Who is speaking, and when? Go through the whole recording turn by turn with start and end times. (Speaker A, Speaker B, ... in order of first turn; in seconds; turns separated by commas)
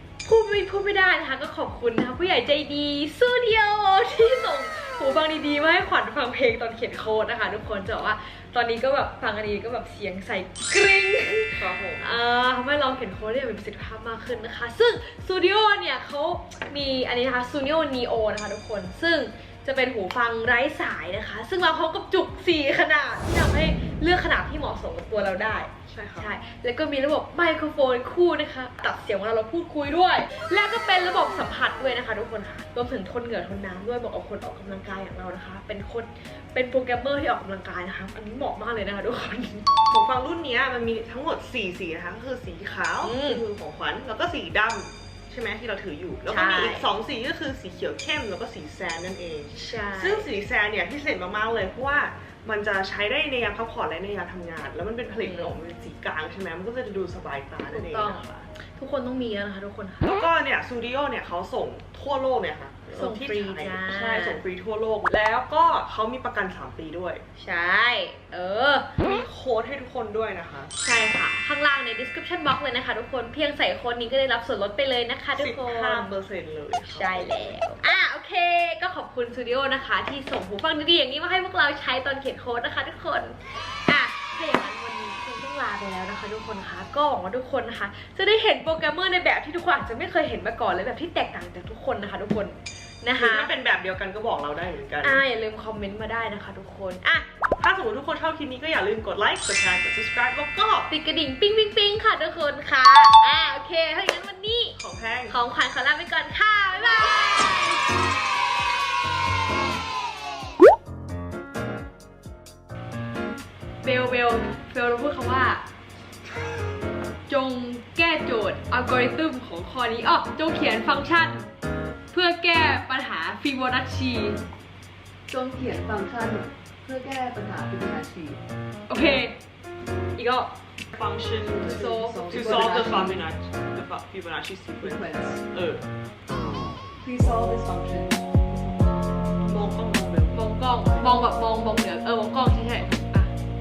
Speaker A: 0.2-39.7, Speaker B: 11.6-12.2, Speaker B: 25.9-26.3, Speaker B: 39.9-58.5, Speaker A: 43.0-43.4, Speaker A: 46.3-46.9, Speaker A: 49.5-50.2, Speaker A: 55.1-55.6, Speaker A: 57.6-60.2, Speaker B: 60.0-67.2, Speaker A: 62.9-64.4, Speaker A: 67.4-68.9, Speaker B: 69.0-70.7, Speaker A: 70.8-76.2, Speaker B: 75.3-77.6, Speaker A: 76.9-93.5, Speaker B: 93.2-95.2, Speaker A: 95.0-97.3, Speaker B: 97.6-100.9, Speaker A: 100.9-104.8, Speaker B: 104.8-105.4, Speaker A: 105.3-107.8, Speaker A: 113.8-115.6, Speaker A: 117.3-121.5, Speaker A: 122.1-124.4, Speaker C: 125.3-128.4, Speaker A: 128.9-129.4, Speaker A: 130.2-130.5, Speaker B: 130.9-135.9, Speaker C: 131.6-133.2, Speaker A: 131.6-133.2, Speaker C: 134.8-135.4, Speaker C: 137.0-139.0, Speaker B: 139.4-140.4, Speaker A: 140.3-143.3, Speaker B: 140.9-141.2